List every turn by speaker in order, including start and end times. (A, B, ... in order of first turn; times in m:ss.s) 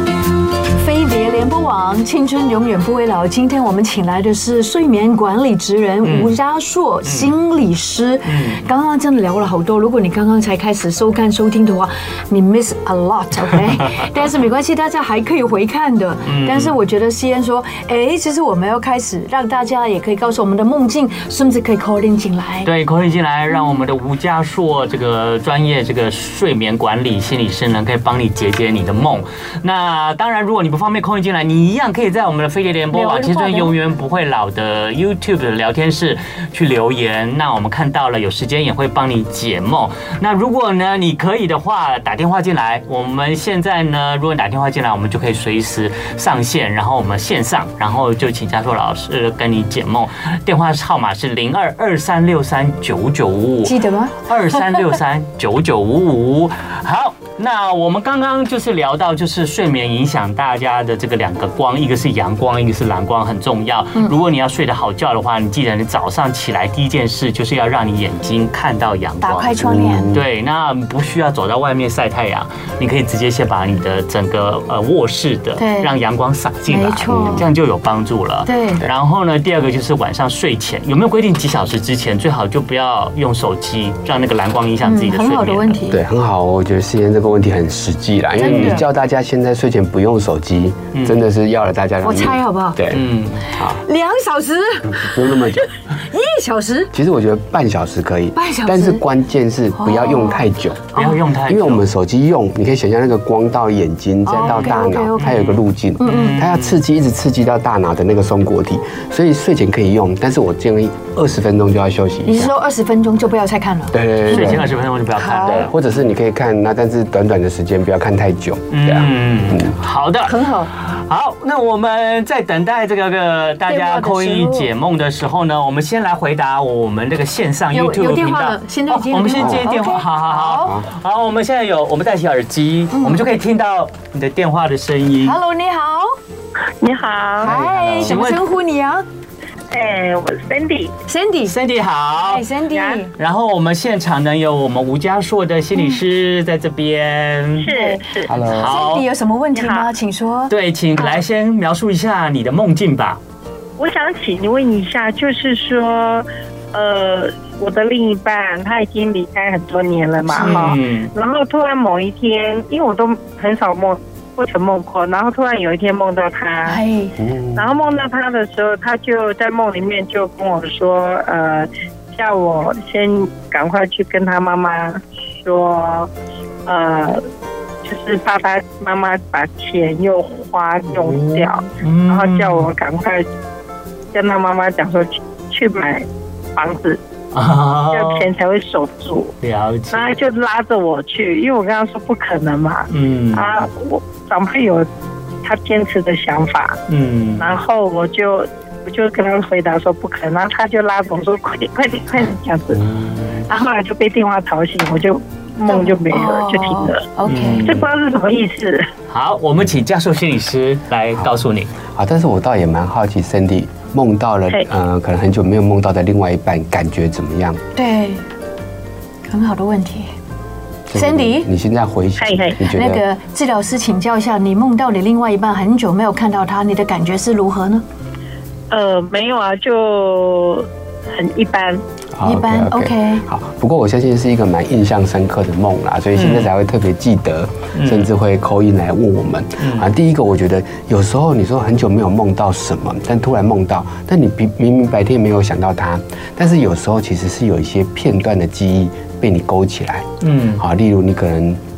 0:00.7-0:22.7 A
0:06.0-0:06.3 B
0:07.0-0:07.3 B
0:08.3-0:08.6 B
0:16.2-0:16.7 B
0:22.6-1:09.6 B
0:23.5-0:23.8 A
0:32.9-0:33.7 A
0:53.6-0:55.0 A
1:09.2-1:10.1 A
1:09.6-1:10.2 C
1:10.1-1:25.8 B
1:15.6-1:15.9 A
1:16.7-1:17.5 A
1:17.1-1:17.5 C
1:18.5-1:18.8 A
1:24.8-1:26.0 A
1:25.9-1:33.8 C
1:28.4-1:28.9 A
1:28.4-1:28.8 B
1:30.9-1:31.2 B
1:32.0-1:32.8 A
1:32.9-1:33.5 B
1:33.5-1:36.9 A
1:34.9-1:35.7 C
1:36.9-1:52.5 C
1:38.4-1:39.0 A
1:39.8-1:41.2 A
1:41.0-1:41.8 B
1:44.3-1:45.4 A
1:44.4-1:46.8 B
1:46.0-1:46.4 A
1:52.3-1:55.7 A
1:53.9-1:54.7 C
1:54.3-1:55.8 B
1:55.4-1:59.8 C
1:58.7-2:15.4 B
2:00.2-2:00.7 A
2:03.7-2:04.7 A
2:07.7-2:10.7 A
2:09.4-2:09.7 C
2:10.6-2:10.9 C
2:12.9-2:13.3 A
2:15.2-2:16.2 A
2:16.8-2:17.5 D
2:17.4-2:18.2 C
2:17.4-2:19.0 A
2:18.0-2:18.4 B
2:19.7-2:20.9 D
2:21.1-2:21.6 A
2:21.5-2:22.5 B
2:22.2-2:23.1 A
2:22.7-2:23.0 D
2:23.1-2:27.7 B
2:27.6-2:28.3 D
2:27.7-2:30.5 A
2:28.3-2:28.8 C
2:28.4-2:29.1 B
2:29.6-2:29.9 D
2:30.5-2:33.2 B
2:33.8-2:46.8 D
2:40.3-2:40.7 A
2:40.4-2:41.1 B
2:46.7-2:47.2 A
2:47.2-2:47.7 C
2:47.6-2:56.1 D
2:56.6-2:57.2 D
2:57.8-3:03.2 D
3:00.9-3:02.7 B
3:04.1-3:07.0 D
3:07.3-3:08.3 B
3:07.9-3:09.3 D
3:09.4-3:10.2 B
3:09.9-3:14.9 D
3:12.9-3:13.5 B
3:15.4-3:16.8 D
3:16.9-3:17.5 B
3:17.4-3:22.8 D
3:22.8-3:23.4 B
3:23.5-3:27.0 D
3:25.7-3:27.7 A
3:27.3-3:27.9 B
3:27.6-3:28.9 D
3:29.1-3:31.7 B
3:31.9-3:37.6 C
3:37.8-3:38.2 A
3:39.3-3:40.1 A
3:40.9-3:43.0 C
3:40.9-3:41.5 A
3:42.2-3:42.6 D
3:42.7-3:47.8 A
3:48.7-3:51.8 D
3:52.2-4:11.6 C
3:52.2-3:53.2 A
3:56.2-3:56.5 B
3:57.8-3:58.1 B
3:59.6-3:59.9 B
4:10.2-4:10.6 B